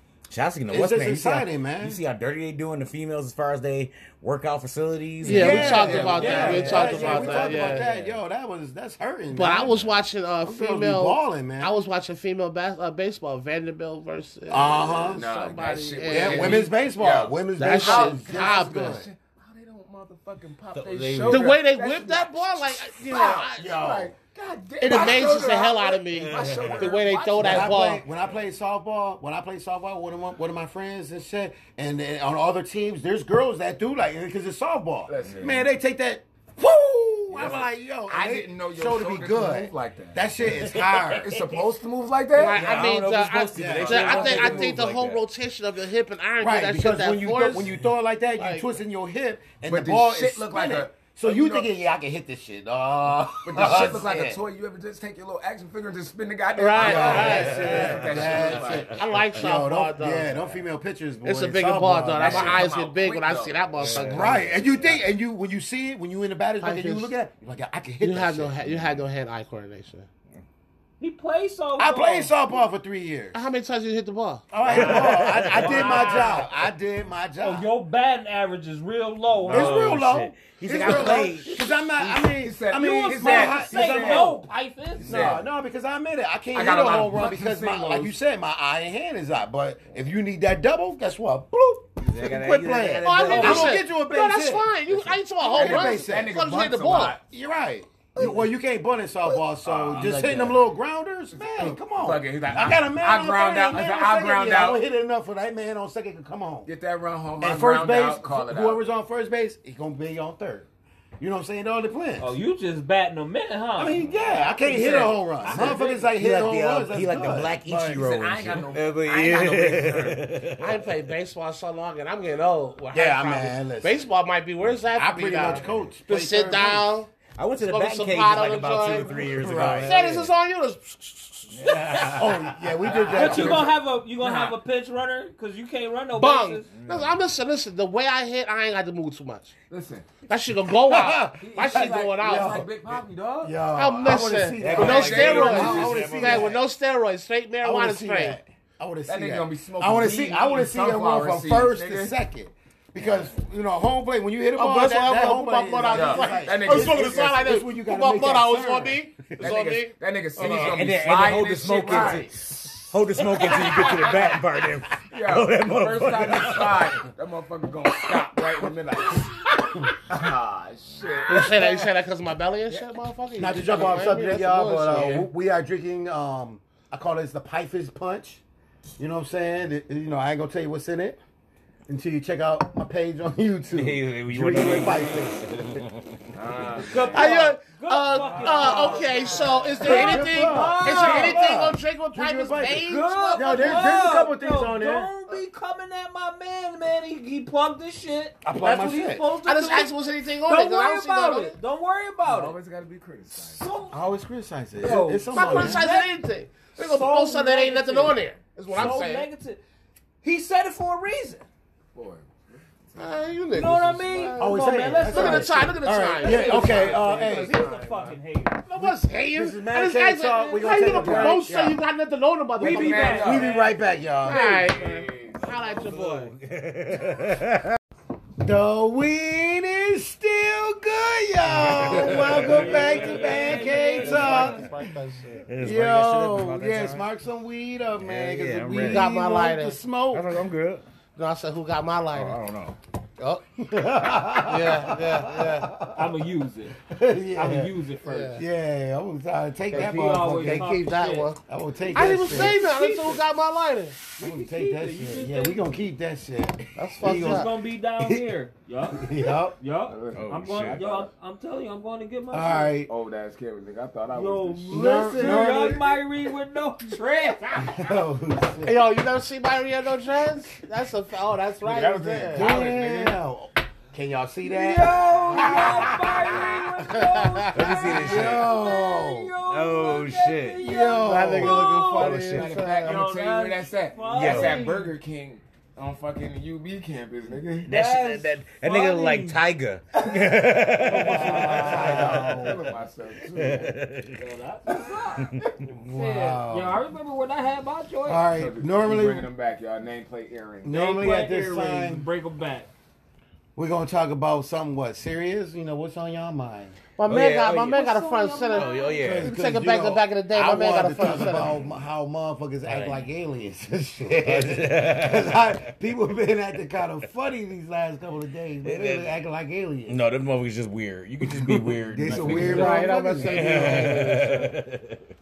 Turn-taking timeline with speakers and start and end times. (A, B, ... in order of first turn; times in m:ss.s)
0:00.3-0:08.2 A
0:00.7-0:02.0 B
0:05.2-0:07.8 C
0:05.2-0:09.8 B
0:05.9-0:06.4 D
0:06.0-0:07.5 E
0:09.3-0:16.7 C
0:10.4-0:11.7 B
0:14.5-0:15.2 B
0:14.6-0:28.4 D
0:16.1-0:19.1 B
0:17.6-0:19.0 C
0:20.7-0:21.6 A
0:21.3-0:23.8 C
0:23.6-0:24.1 B
0:24.8-0:28.0 C
0:24.9-0:25.3 B
0:26.1-0:27.0 A
0:27.4-0:41.4 B
0:35.1-0:35.7 D
0:37.3-0:40.3 D
0:41.2-0:44.8 D
0:42.3-0:47.7 C
0:42.5-0:42.9 A
0:43.5-0:44.8 B
0:43.7-0:45.2 A
0:46.4-0:54.4 B
0:48.4-0:48.7 C
0:49.6-0:51.8 D
0:53.4-0:58.9 D
0:53.6-0:54.0 A
0:56.6-1:00.6 C
0:56.8-1:02.7 B
0:56.9-0:59.2 A
1:01.2-1:04.5 C
1:02.2-1:04.6 D
1:03.8-1:04.5 A
1:03.9-1:08.6 B
1:06.6-1:07.1 C
1:08.0-1:10.1 C
1:11.0-1:12.3 E
1:11.8-1:13.4 B
1:13.3-1:14.4 C
1:14.5-1:17.7 B
1:14.6-1:14.9 D
1:14.7-1:16.4 A
1:14.7-1:16.5 E
1:17.4-1:20.0 E
1:19.4-1:22.3 A
1:19.5-1:24.5 B
1:20.7-1:21.4 E
1:22.4-1:24.4 D
1:22.8-1:25.4 E
1:25.0-1:25.4 D
1:25.0-1:34.7 B
1:26.5-1:28.1 D
1:32.0-1:33.8 A
1:33.0-1:37.2 C
1:35.4-1:36.4 B
1:35.5-1:37.2 D
1:37.2-1:46.7 B
1:39.6-1:40.5 D
1:39.9-1:40.6 A
1:41.3-1:44.8 D
1:46.6-1:48.8 D
1:47.4-1:50.7 B
1:51.2-1:52.4 B
1:52.2-1:54.0 E
1:53.8-1:58.0 B
1:54.6-1:56.0 D
1:55.5-2:00.8 A
1:57.8-2:00.2 D
2:00.6-2:09.2 C
2:02.9-2:04.0 B
2:04.9-2:07.0 B
2:05.3-2:05.9 A
2:07.3-2:10.3 A
2:08.8-2:10.0 B
2:09.7-2:12.1 C
2:11.6-2:12.4 A
2:11.8-2:12.2 E
2:12.0-2:13.7 B
2:12.8-2:14.6 D
2:13.0-2:16.7 E
2:16.1-2:19.5 C
2:16.7-2:17.1 A
2:19.7-2:20.1 D
2:20.3-2:22.6 C
2:20.7-2:22.7 B
2:21.3-2:23.6 D
2:23.4-2:26.6 B
2:23.7-2:28.4 C
2:24.6-2:26.6 A
2:24.6-2:26.0 D
2:27.6-2:39.5 B
2:29.0-2:32.2 D
2:34.5-2:40.8 C
2:35.9-2:37.4 D
2:39.4-2:44.4 D
2:40.4-2:47.0 A
2:42.0-2:42.2 B
2:45.0-2:49.4 D
2:48.1-2:48.4 A
2:50.0-2:51.9 D
2:51.3-2:55.2 C
2:53.4-2:58.4 B
2:59.0-3:01.2 B
3:01.9-3:05.5 B
3:03.7-3:06.3 A
3:06.3-3:07.3 D
3:06.7-3:11.5 E
3:07.0-3:14.0 C
3:08.2-3:15.1 B
3:12.8-3:22.6 E
3:18.4-3:19.2 B
3:19.4-3:21.6 C
3:22.2-3:23.6 D
3:23.3-3:24.0 E
3:23.9-3:25.8 B
3:24.8-3:26.1 E
3:25.3-3:29.3 C
3:26.8-3:29.6 E
3:30.2-3:31.4 E
3:31.9-3:33.2 D
3:33.0-3:38.1 C
3:33.5-3:38.7 E
3:34.4-3:37.6 B
3:36.6-3:38.1 D
3:38.6-3:43.2 C
3:38.8-3:41.8 B
3:40.6-3:41.4 E
3:42.6-3:43.8 E
3:42.6-3:43.7 D
3:43.1-3:44.6 B
3:44.2-3:45.6 D
3:44.2-3:46.3 C
3:45.6-3:47.8 A
3:48.4-3:54.7 B
3:51.5-3:53.0 A
3:51.9-3:54.7 E
3:52.8-3:55.5 C
3:55.5-3:57.1 A
3:55.6-4:00.4 B
3:58.0-3:59.1 A
3:58.8-3:59.8 C
4:00.1-4:00.8 A
4:01.2-4:02.4 C
4:02.1-4:02.8 A
4:03.6-4:06.2 B
4:04.4-4:05.7 C
4:05.9-4:06.8 E
4:06.8-4:07.7 B
4:07.3-4:08.4 E
4:08.0-4:08.4 C
4:08.3-4:10.8 B
4:09.7-4:11.3 E
4:10.2-4:11.4 C
4:11.4-4:12.6 B
4:11.9-4:13.2 E
4:11.9-4:14.0 C
4:14.2-4:15.8 E
4:14.2-4:18.2 B
4:16.8-4:17.5 C
4:17.0-4:22.8 E
4:18.9-4:19.6 B
4:19.8-4:21.1 D
4:20.1-4:20.8 A
4:22.3-4:22.9 B
4:22.8-4:25.6 D
4:24.1-4:27.9 E
4:24.7-4:25.9 B
4:27.6-4:28.9 B
4:28.6-4:32.5 C
4:31.6-4:33.2 D
4:32.3-4:36.5 B
4:34.4-4:44.9 E
4:35.5-4:35.9 D
4:36.8-4:37.8 C
4:37.5-4:38.5 A
4:37.8-4:39.3 B
4:39.4-4:40.6 A
4:40.6-4:42.4 B
4:41.0-4:43.0 C
4:42.0-4:42.6 A
4:42.2-4:47.7 D
4:44.1-4:44.6 A
4:47.7-4:49.4 E
4:47.7-4:52.0 A
4:50.8-4:52.4 E
4:50.9-4:52.6 B
4:51.3-4:53.8 D
4:53.3-4:54.2 A
4:54.2-4:58.2 E
4:55.2-4:55.6 A
4:55.7-4:56.8 B
4:58.0-4:59.3 B
4:58.3-5:00.8 D
5:00.6-5:02.1 B
5:00.7-5:02.7 E
5:03.6-5:06.8 B
5:07.0-5:11.5 C
5:07.1-5:07.8 A
5:07.7-5:09.1 E
5:08.5-5:09.3 A
5:09.0-5:20.0 B
5:11.0-5:11.5 A
5:12.7-5:13.0 A
5:14.1-5:15.4 A
5:18.6-5:19.1 A
5:19.9-5:25.0 A
5:21.2-5:24.5 B
5:22.1-5:22.8 D
5:22.2-5:24.5 C